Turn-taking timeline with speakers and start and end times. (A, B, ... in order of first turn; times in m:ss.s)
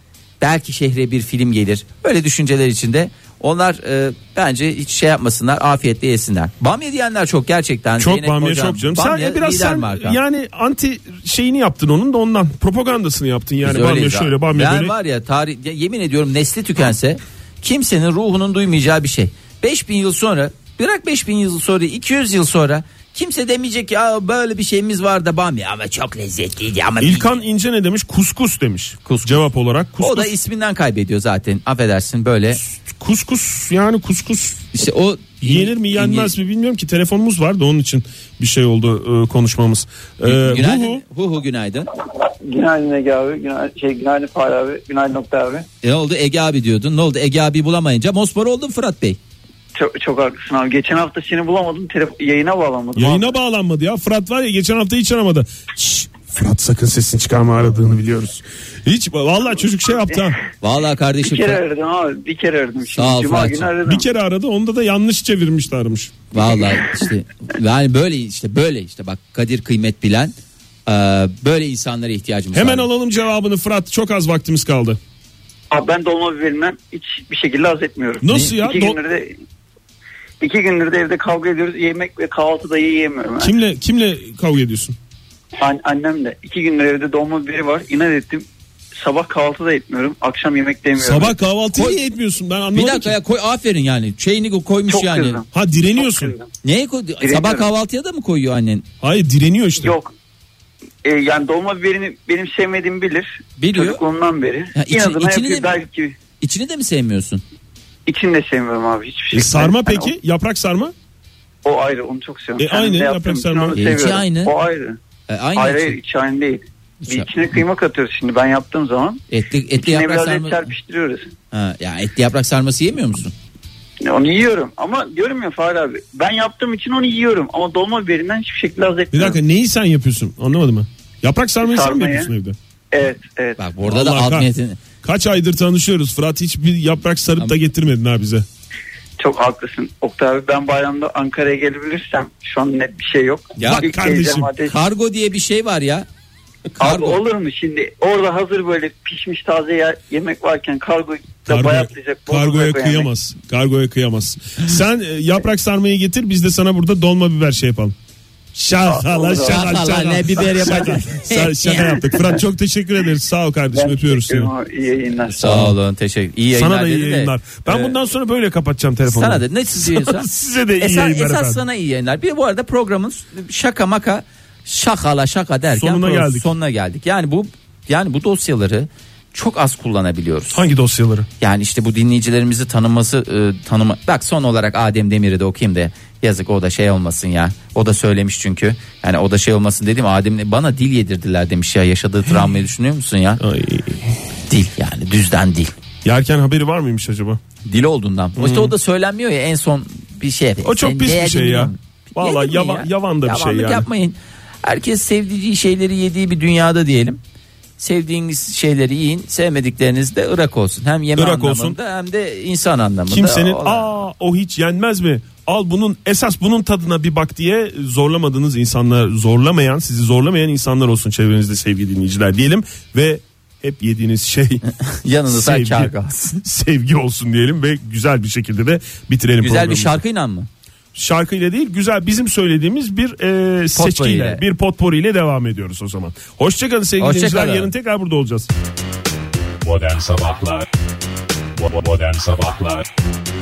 0:00.4-0:10.2 A
0:08.0-0:14.9 B
0:13.6-0:27.4 A
0:27.0-0:30.3 B
0:29.0-0:32.6 A
0:32.5-0:34.7 B
0:34.7-0:36.3 A
0:35.4-0:41.0 B
0:40.2-0:41.9 A
0:42.2-0:45.7 C
0:45.8-0:49.2 A
0:49.8-0:53.3 C
0:53.0-1:00.4 B
1:00.6-1:01.6 A
1:01.2-1:04.0 C
1:03.0-1:03.7 A
1:03.8-1:06.2 B
1:06.3-1:10.3 A
1:10.9-1:12.9 A
1:12.5-1:15.0 B
1:15.7-1:19.3 C
1:18.2-1:19.0 B
1:20.4-1:23.5 C
1:23.4-1:25.0 B
1:25.6-1:28.5 C
1:29.0-1:31.4 C
1:31.0-1:33.2 B
1:32.7-1:35.4 A
1:34.9-1:35.5 C
1:35.5-1:36.3 B
1:36.0-1:36.5 C
1:36.6-1:38.9 A
1:37.2-1:37.7 C
1:39.0-1:39.9 B
1:39.8-1:40.1 C
1:41.0-1:46.2 C
1:43.6-1:44.0 A
1:44.7-1:45.8 A
1:46.4-1:47.4 A
1:48.1-1:50.1 C
1:49.3-1:50.9 B
1:51.6-1:55.0 C
1:52.6-1:53.9 B
1:53.8-1:54.5 A
1:55.3-1:56.0 A
1:55.6-1:59.2 C
1:59.3-2:00.7 A
1:59.8-2:01.3 C
2:01.5-2:03.3 A
2:04.0-2:09.4 C
2:09.1-2:12.6 B
2:11.6-2:12.3 C
2:12.9-2:13.6 C
2:13.6-2:14.8 A
2:13.8-2:14.5 B
2:15.0-2:18.4 B
2:19.2-2:24.8 C
2:23.6-2:23.9 A
2:23.6-2:24.5 B
2:24.6-2:26.1 A
2:26.8-2:33.1 C
2:26.8-2:27.2 A
2:31.5-2:38.0 B
2:38.5-2:44.5 B
2:38.9-2:39.8 C
2:39.4-2:42.4 A
2:43.7-2:45.4 C
2:45.3-2:48.0 A
2:45.4-2:45.8 B
2:46.5-2:51.6 B
2:49.1-3:00.6 A
2:55.7-2:56.5 B
3:00.5-3:01.3 B
3:01.4-3:13.4 A
3:13.4-3:14.2 B
3:14.5-3:15.7 A
3:16.0-3:17.4 B
3:17.6-3:27.2 A
3:18.4-3:18.7 B
3:20.6-3:23.9 B
3:27.8-3:33.9 A
3:31.2-3:31.8 B
3:33.1-3:44.6 B
3:44.7-3:46.4 A
3:45.3-3:50.0 B
3:49.4-3:50.5 A
3:51.0-3:58.5 B
3:53.8-3:54.4 A
3:57.0-3:57.7 A
3:59.6-4:00.7 D
4:01.6-4:02.9 D